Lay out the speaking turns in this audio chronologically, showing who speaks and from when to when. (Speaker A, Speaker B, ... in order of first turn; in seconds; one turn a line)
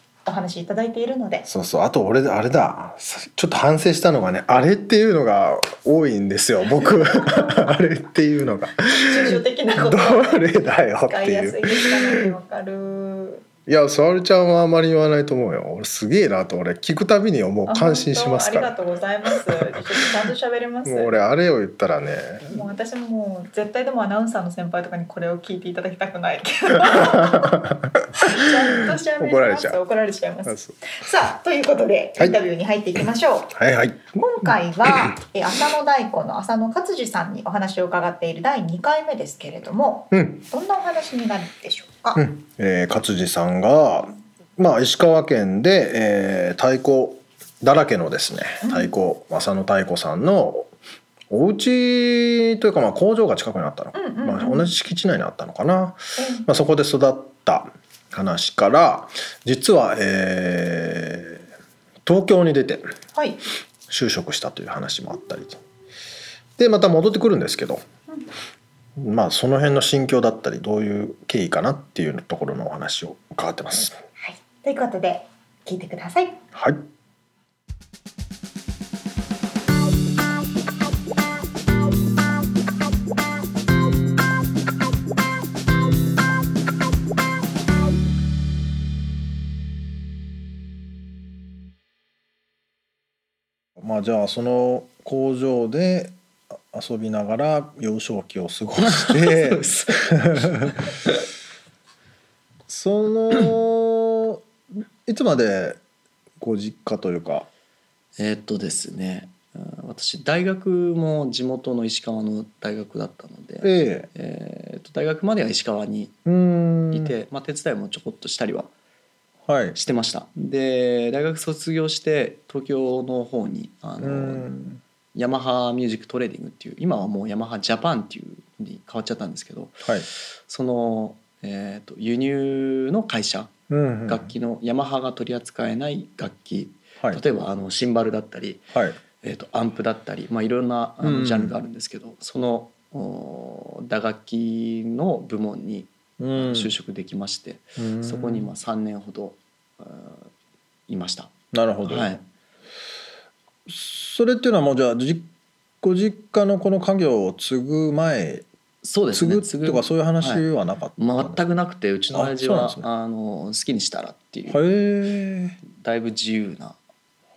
Speaker A: 0.2-1.5
Speaker B: 1.5-12.3
Speaker A: 8.9-13.5
Speaker B: 13.7-18.7
Speaker A: 17.7-21.2
Speaker B: 19.3-20.0
Speaker B: 20.9-22.6
Speaker A: 22.5-27.6
Speaker B: 26.8-29.8
Speaker A: 28.2-33.6
Speaker B: 30.5-30.9
Speaker B: 33.5-35.1
Speaker A: 34.1-42.2
Speaker B: 40.1-40.4
Speaker B: 42.1-50.7
Speaker A: 48.6-48.9
Speaker B: 51.3-61.5
Speaker A: 54.0-54.7
Speaker A: 56.2-56.5
Speaker B: 62.0-62.9
Speaker A: 63.1-63.4
Speaker B: 63.9-65.6
Speaker B: 66.6-67.8
Speaker B: 69.0-74.0
Speaker A: 74.2-76.4
Speaker B: 76.5-76.8
Speaker B: 93.8-96.2
Speaker B: 96.7-100.8
Speaker C: 98.8-101.2
Speaker B: 102.7-104.4
Speaker B: 105.1-105.8
Speaker B: 106.4-107.5
Speaker C: 108.2-116.1
Speaker B: 113.6-114.1
Speaker B: 116.3-117.1
Speaker C: 116.9-118.7
Speaker B: 119.5-119.8
Speaker C: 119.8-124.5
Speaker B: 124.0-124.8
Speaker C: 125.2-133.5
Speaker B: 133.7-134.3
Speaker C: 134.1-138.6
Speaker B: 138.7-139.0
Speaker C: 139.2-150.3
Speaker B: 141.0-141.6
Speaker B: 146.2-146.7
Speaker B: 147.8-148.5
Speaker C: 150.9-151.3
Speaker B: 151.5-152.1
Speaker C: 151.8-152.2
Speaker B: 153.7-155.3
Speaker B: 155.8-158.5
Speaker C: 158.8-160.4
Speaker B: 159.1-161.4
Speaker C: 161.0-164.6
Speaker B: 162.1-162.9
Speaker B: 164.5-165.6
Speaker C: 165.7-166.8